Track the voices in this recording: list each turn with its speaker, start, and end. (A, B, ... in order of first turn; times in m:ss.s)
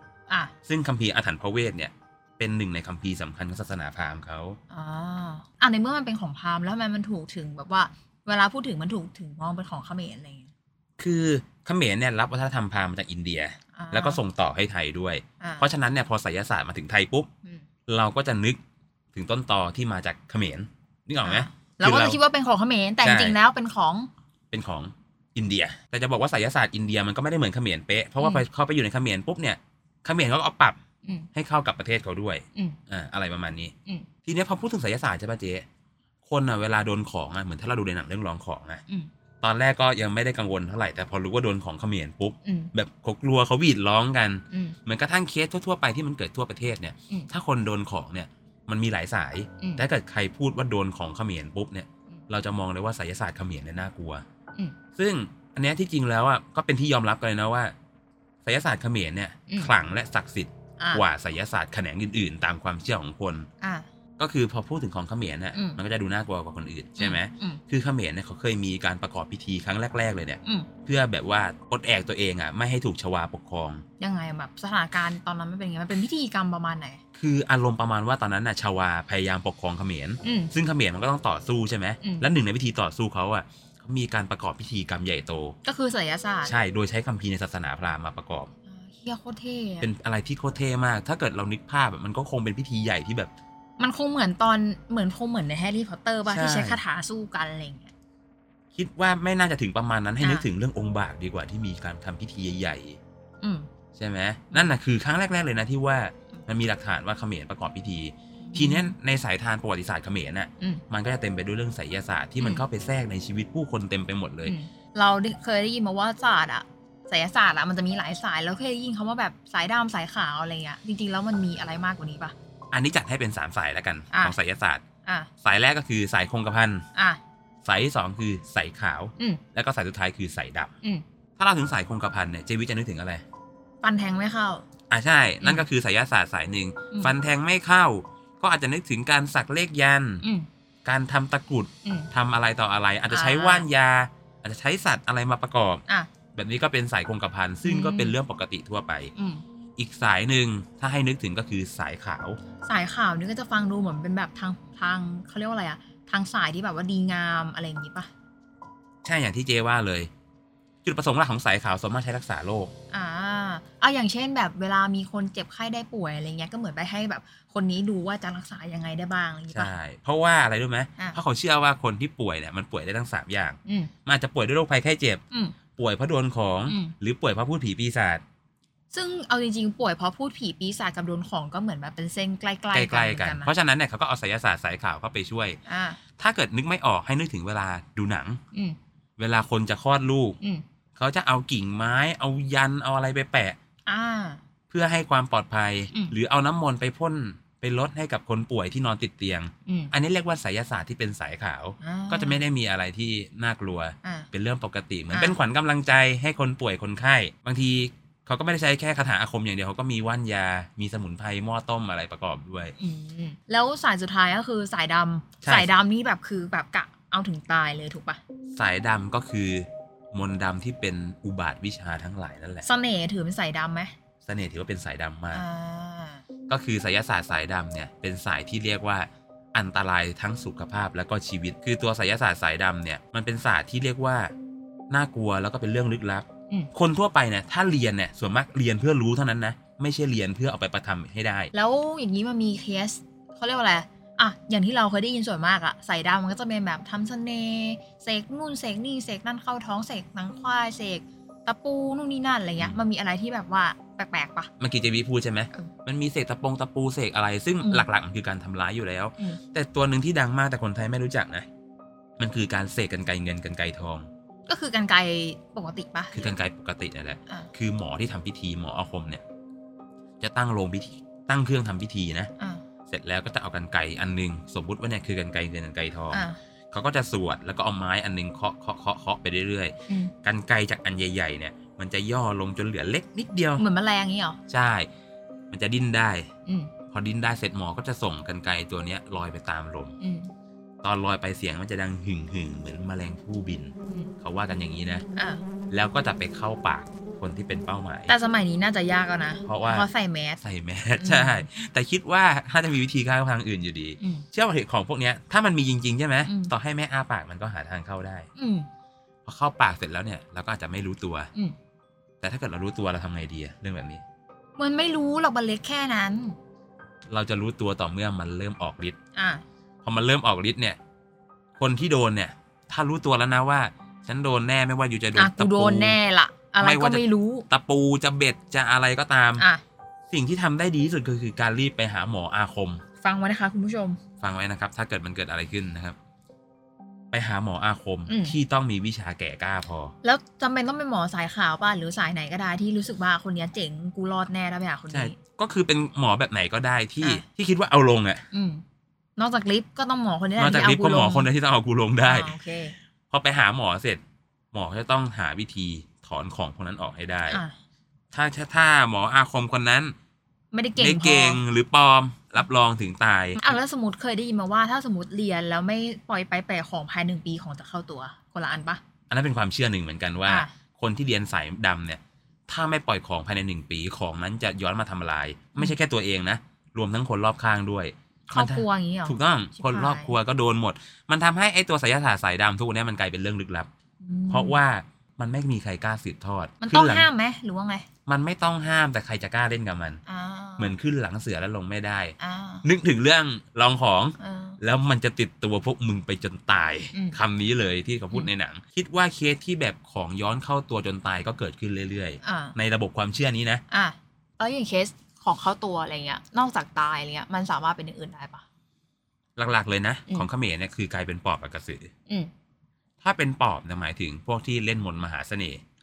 0:00.6-0:04.6 A
0:04.7-0:10.5 B
0:11.0-0:17.3 A
0:13.8-0:14.2 B
0:15.4-0:15.7 B
0:17.9-0:18.6 A
0:19.1-0:22.2 A
0:21.2-0:24.1 B
0:23.0-0:23.4 A
0:24.5-0:30.8 A
0:28.2-0:28.4 B
0:31.3-0:33.7 A
0:34.2-0:35.6 A
0:36.2-0:38.8 A
0:39.4-0:54.2 A
0:42.4-0:42.7 B
0:44.5-0:44.8 B
0:49.6-0:49.8 B
0:55.0-0:57.7 A
0:58.4-1:03.5 A
0:59.5-0:59.7 B
1:00.8-1:01.0 B
1:03.6-1:03.8 B
1:04.2-1:13.8 A
1:05.5-1:05.8 B
1:07.0-1:07.6 B
1:10.4-1:10.7 B
1:14.0-1:17.0 B
1:17.1-1:25.5 A
1:20.2-1:20.5 B
1:22.0-1:22.3 B
1:25.6-1:26.5 B
1:26.4-1:28.5 A
1:28.7-1:29.9 B
1:29.8-1:33.3 A
1:33.8-1:37.9 B
1:36.2-1:36.8 A
1:38.7-1:43.0 A
1:40.2-1:40.4 B
1:43.4-1:43.7 B
1:43.9-1:54.5 A
1:48.4-1:48.9 B
1:54.4-2:02.3 B
2:02.7-2:04.8 A
2:04.1-2:04.4 B
2:05.0-2:05.3 B
2:05.4-2:06.8 A
2:06.9-2:07.2 B
2:07.6-2:10.7 A
2:11.4-2:13.2 A
2:13.8-2:14.6 B
2:14.9-2:20.2 A
2:15.4-2:15.6 B
2:20.2-2:20.5 B
2:20.8-2:25.8 A
2:21.8-2:22.1 B
2:23.1-2:23.7 B
2:26.3-2:29.1 A
2:27.6-2:28.2 B
2:29.2-2:29.4 B
2:29.8-2:32.4 A
2:32.6-2:38.1 B
2:39.0-2:40.1 A
2:40.8-2:42.7 A
2:42.9-2:49.7 B
2:49.5-2:55.2 A
2:53.6-2:53.9 B
2:55.3-2:55.6 B
2:55.8-2:58.2 A
2:56.7-2:56.9 B
2:58.9-3:03.5 B
3:02.7-3:05.6 A
3:05.6-3:06.0 B
3:06.2-3:08.4 A
3:09.2-3:10.4 A
3:11.0-3:13.6 A
3:13.8-3:14.4 B
3:14.7-3:32.7 A
3:19.6-3:19.9 B
3:21.8-3:22.4 B
3:24.0-3:24.3 B
3:25.1-3:25.4 B
3:32.8-3:38.2 B
3:35.4-3:35.7 A
3:38.5-3:42.6 A
3:42.6-3:43.9 B
3:44.2-3:45.4 A
3:45.3-3:46.2 B
3:46.5-3:54.3 A
3:54.9-4:01.5 A
4:01.5-4:14.5 B
4:14.6-4:21.5 A
4:17.6-4:17.9 B
4:22.2-4:24.1 A
4:24.5-4:26.3 B
4:26.1-4:29.2 A
4:30.2-4:32.3 A
4:32.9-4:43.6 A
4:36.1-4:36.4 B
4:43.6-4:44.4 B
4:44.5-4:44.9 A
4:45.5-4:46.3 A
4:46.4-4:46.7 B
4:46.9-4:49.9 A
4:50.0-4:50.3 B
4:50.8-4:55.0 A
4:55.2-4:55.4 B
4:55.7-4:58.1 A
4:58.1-5:00.4 B
4:59.4-4:59.8 A
5:00.4-5:08.3 A
5:01.0-5:01.4 B
5:04.0-5:04.2 B
5:06.2-5:06.5 B
5:08.4-5:08.7 B
5:09.2-5:11.3 A
5:12.2-5:14.0 A
5:14.6-5:16.4 B
5:17.1-5:19.0 A
5:19.1-5:19.4 B
5:19.8-5:20.8 A
5:21.6-5:26.0 A
5:25.1-5:27.4 B
5:26.6-5:29.4 A
5:30.1-5:32.8 A
5:33.0-5:34.0 B
5:34.2-5:36.0 A
5:37.1-5:39.9 A
5:38.1-5:38.4 B
5:40.0-5:45.2 B
5:44.9-5:48.2 A
5:48.3-5:48.6 B
5:49.2-5:51.3 B
5:50.4-5:52.3 A
5:52.0-5:52.8 B
5:53.1-5:54.0 A
5:54.5-5:57.4 A
5:57.3-5:57.5 B
5:58.1-5:59.9 A
6:00.5-6:01.4 B
6:00.8-6:03.6 A
6:03.4-6:08.8 B
6:09.1-6:23.7 A
6:10.2-6:10.5 B
6:18.3-6:20.1 B
6:24.0-6:24.6 B
6:24.3-6:27.1 A
6:26.6-6:27.8 B
6:28.1-6:30.0 A
6:30.0-6:30.7 B
6:30.6-6:43.6 A
6:32.2-6:32.6 B
6:34.2-6:34.6 B
6:36.9-6:37.2 B
6:42.2-6:42.5 B
6:43.7-6:48.4 B
6:49.4-6:51.9 A
6:53.0-6:55.6 A